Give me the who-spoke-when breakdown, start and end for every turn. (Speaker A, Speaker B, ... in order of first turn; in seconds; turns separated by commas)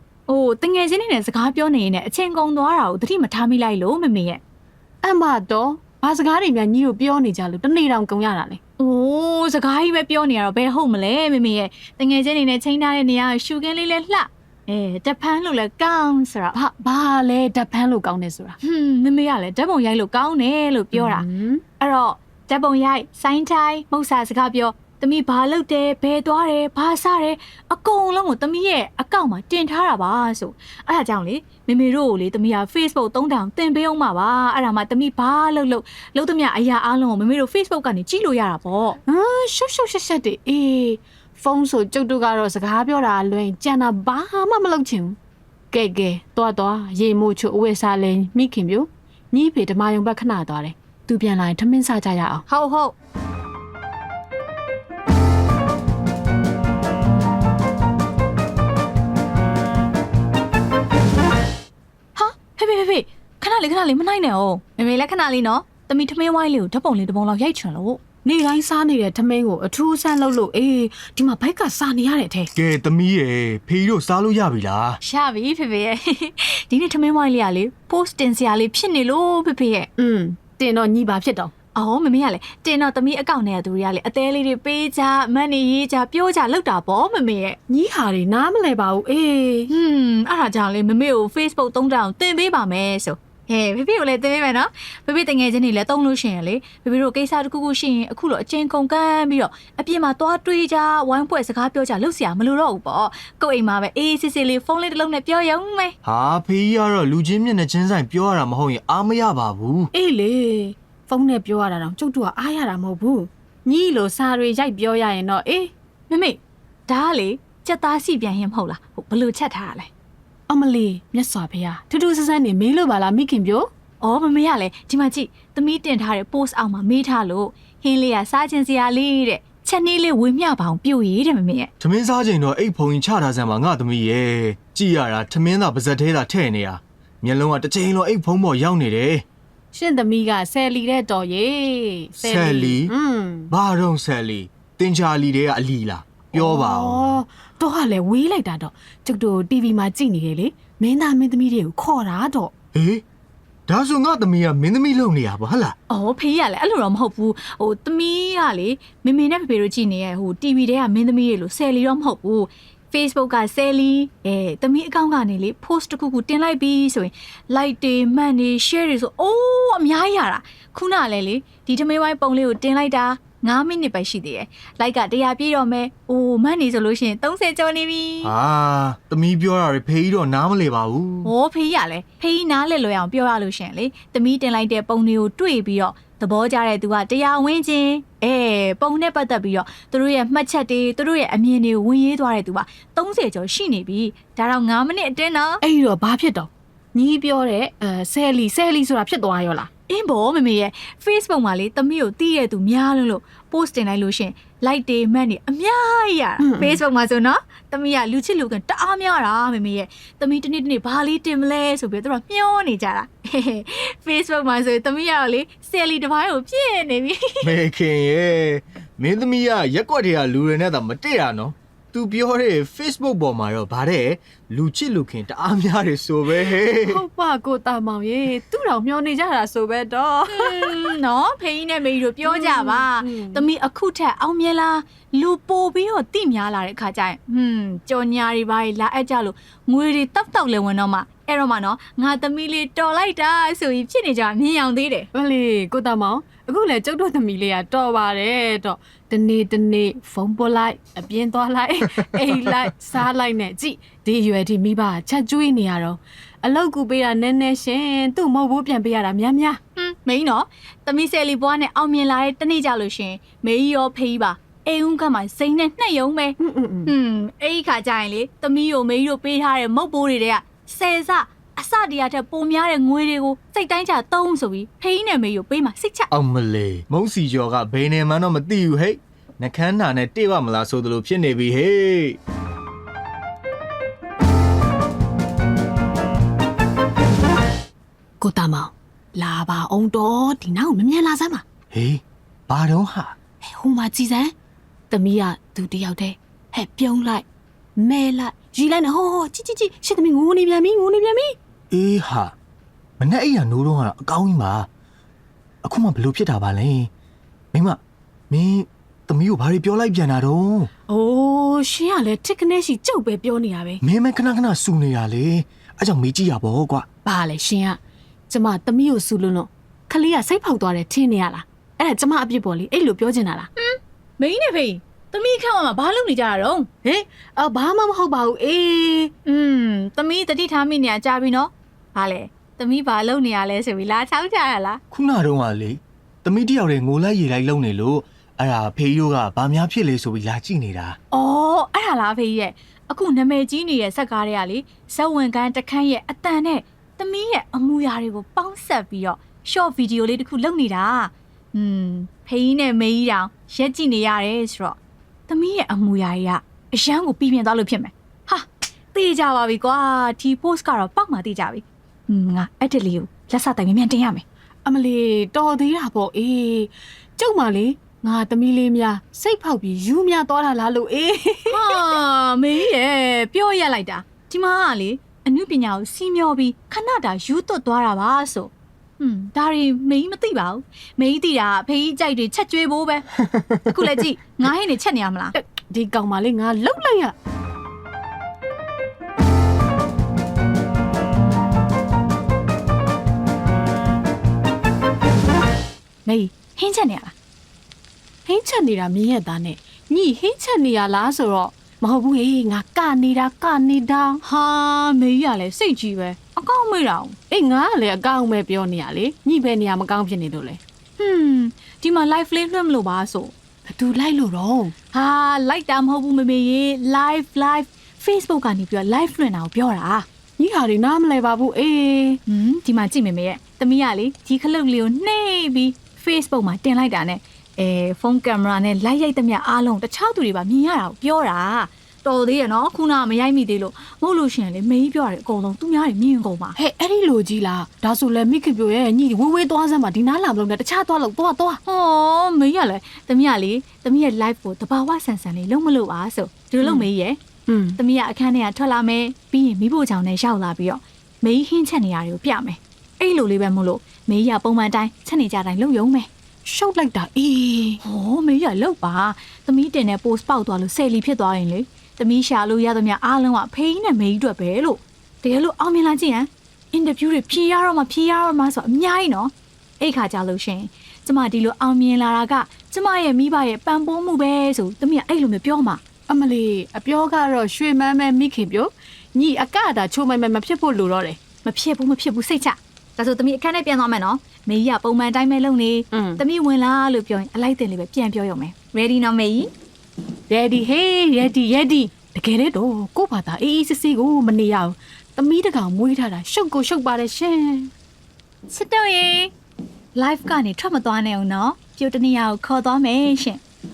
Speaker A: 0.3-4.4, Speaker B: 5.0-8.6, Speaker A: 8.8-16.6, Speaker B: 16.5-18.6, Speaker A: 18.6-21.2, Speaker B: 20.9-21.6, Speaker A: 21.8-39.0, Speaker B: 39.1-45.1, Speaker B: 45.7-52.4, Speaker A: 52.5-52.9, Speaker A: 62.1-68.0, Speaker B: 68.2-72.5, Speaker C: 72.5-75.0, Speaker A: 75.0-79.9, Speaker B: 80.0-81.5, Speaker A: 81.7-87.6, Speaker B: 87.7-89.7, Speaker A: 89.7-105.9, Speaker C: 106.0-109.9, Speaker B: 109.9-115.7, Speaker A: 116.1-119.9, Speaker B: 120.5-123.7, Speaker A: 124.0-131.7, Speaker C: 131.8-139.2, Speaker B: 139.7-143.5, Speaker C: 142.2-142.9, Speaker C: 143.5-147.2, Speaker B: 146.3-152.5, Speaker C: 152.7-153.0, Speaker C: 153.7-155.8, Speaker A: 155.9-178.3, Speaker C: 178.2-181.3, Speaker A: 181.2-195.6, Speaker B: 195.6-199.7, Speaker A: 199.9-217.5, Speaker B: 206.4-206.8, Speaker C: 217.4-227.0, Speaker B: 226.8-231.0, Speaker A: 230.3-245.1, Speaker B: 232.2-233.5, Speaker B: 245.1-259.6, Speaker C: 252.0-252.6, Speaker A: 259.8-276.1, Speaker B: 266.4-266.9, Speaker C: 276.1-282.2, Speaker B: 288.2-291.4, Speaker C: 291.7-293.1, Speaker B: 293.4-294.3, Speaker B: 294.9-297.2, Speaker B: 297.8-301.4, Speaker C: 301.7-302.3, Speaker C: 303.0-304.7, Speaker C: 305.6-306.9, Speaker C: 307.5-310.7, Speaker B: 310.9-313.8, Speaker C: 313.8-316.9, Speaker B: 317.0-317.8, Speaker B: 318.3-323.5, Speaker A: 323.6-326.7, Speaker B: 326.8-329.1, Speaker A: 329.2-334.8, Speaker C: 334.9-341.0, Speaker A: 341.1-354.8, Speaker A: 355.3-364.2, Speaker B: 364.6-371.9, Speaker A: 371.5-383.1, Speaker A: 383.6-385.3, Speaker B: 385.4-387.1, Speaker A: 396.0-397.1, Speaker B: 398.2-404.2, Speaker A: 404.2-407.1, Speaker B: 407.3-410.6, Speaker A: 411.0-413.3, Speaker B: 413.7-414.7, Speaker A: 414.9-420.1, Speaker B: 420.4-422.2, Speaker A: 422.2-436.6, Speaker B: 436.6-441.6, Speaker A: 441.6-447.2, Speaker B: 446.6-446.9, Speaker B: 447.5-447.8, Speaker A: 447.8-456.1, Speaker B: 456.4-457.8, Speaker A: 457.8-475.8, Speaker B: 476.1-481.2, Speaker A: 481.4-489.5, Speaker B: 485.9-486.2, Speaker B: 490.3-497.7, Speaker A: 498.5-499.3, Speaker A: 499.9-503.4